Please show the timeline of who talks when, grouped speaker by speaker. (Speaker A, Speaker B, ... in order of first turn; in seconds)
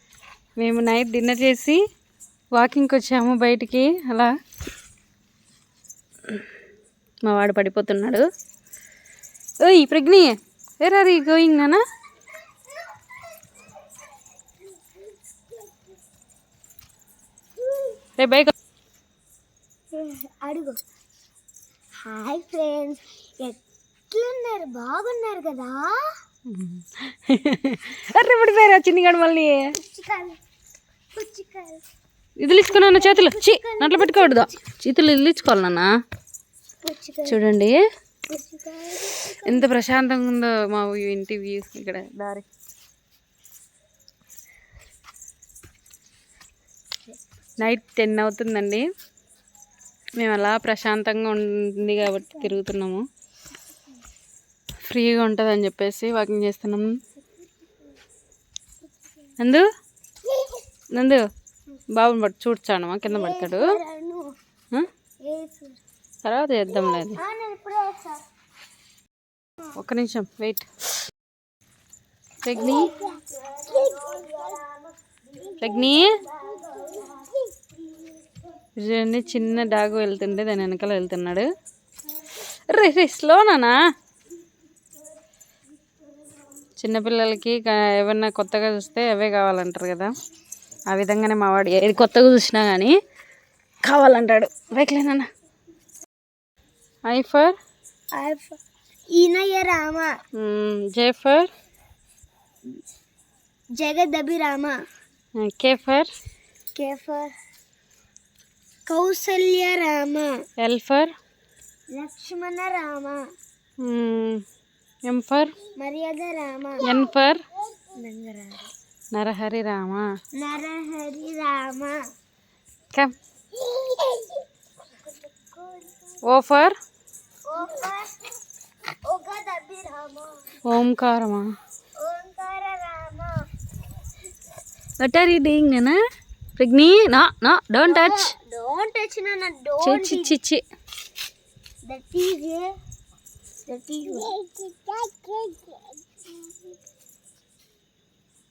Speaker A: 0.6-1.8, 2.5-4.3, 7.2-8.2, 9.6-11.8, 18.2-18.5, 26.5-29.8, 32.4-35.9, 37.2-37.8, 39.4-42.5, 47.6-48.9, 50.2-53.0, 54.8-57.0, 59.4-59.6, 60.9-61.2, 62.0-63.8, 66.2-67.2, 69.7-70.7, 72.4-72.9, 75.6-76.2, 78.8-81.5, 82.5-83.8, 86.8-90.1, 90.9-93.0, 93.8-95.3, 97.0-97.5, 100.3-101.5, 105.4-106.1, 110.6-111.1, 113.8-114.4, 115.1-115.5, 116.8-117.4, 119.1-120.1, 126.2-126.8, 130.6-131.5, 135.0-136.0, 136.6-138.3, 139.8-140.6
Speaker B: 19.9-20.8, 22.0-26.1, 29.8-30.4, 31.1-31.8, 32.5-34.5, 36.8-37.4, 38.3-39.7, 63.0-64.3, 65.2-65.8, 67.0-68.2, 72.5-78.2, 98.1-98.5, 99.1-100.1, 103.8-104.8, 106.7-107.3, 108.8-110.4, 111.9-113.2, 115.8-116.9, 117.9-118.7, 120.3-122.0, 123.5-124.4, 125.2-126.1, 127.5-128.3, 129.0-130.5, 132.0-133.5, 137.9-140.4, 141.9-142.7, 143.7-146.6